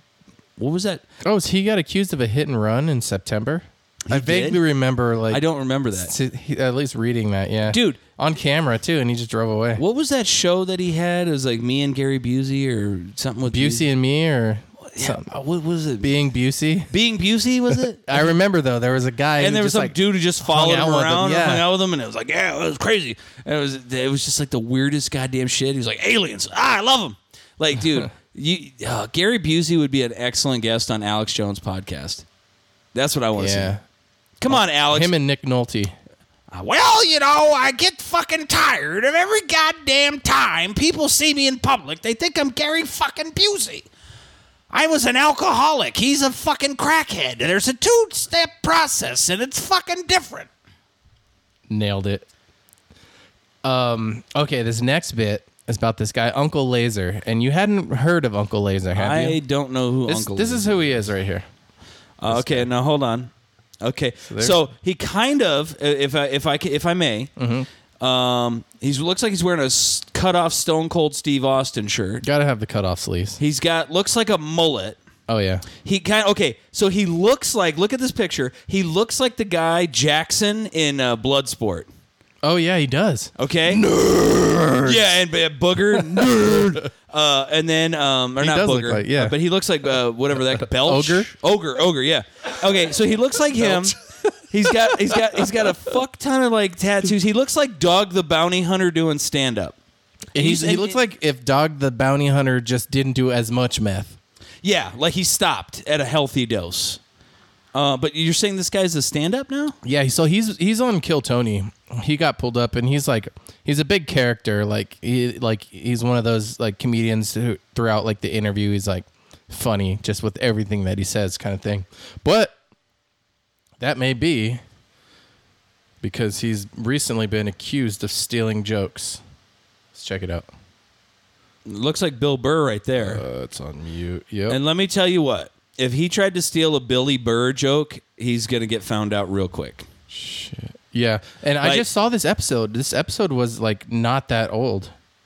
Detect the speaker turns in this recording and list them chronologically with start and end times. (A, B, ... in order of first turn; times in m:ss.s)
0:00.6-0:01.0 A
0:01.2-0:09.8 B
0:04.1-0:04.6 A
0:05.3-0:06.1 A
0:07.6-0:08.0 A
0:09.8-0:13.8 A
0:13.5-0:15.3 B
0:14.8-0:16.1 A
0:16.0-0:16.9 B
0:16.9-0:18.3 A
0:17.7-0:21.6 B
0:19.4-0:32.2 A
0:32.9-0:33.8 A
0:33.3-0:33.8 B
0:34.4-0:35.1 A
0:34.5-0:35.9 B
0:36.5-0:43.9 A
0:44.7-0:50.5 A
0:51.7-0:52.2 B
0:53.6-0:59.4 B
0:58.9-1:00.9 A
1:00.0-1:01.5 B
1:02.2-1:03.3 A
1:02.3-1:02.7 B
1:03.8-1:07.3 A
1:04.3-1:04.6 B
1:07.4-1:07.7 B
1:08.0-1:12.2 A
1:12.2-1:13.4 B
1:13.4-1:15.0 A
1:15.3-1:15.6 B
1:15.8-1:21.9 A
1:22.4-1:25.2 B
1:23.4-1:23.8 A
1:24.8-1:34.0 A
1:25.9-1:26.9 B
1:28.4-1:29.4 B
1:30.5-1:31.3 B
1:33.5-1:35.9 B
1:34.5-1:39.8 A
1:40.3-1:41.0 A
1:40.3-1:44.2 B
1:44.6-1:47.0 A
1:47.7-1:49.8 A
1:49.8-2:02.5 B
2:03.8-2:04.6 B
2:06.0-2:09.2 B
2:09.9-2:10.5 B
2:11.6-2:13.2 A
2:13.0-2:14.6 B
2:14.5-2:19.8 A
2:20.1-2:24.9 B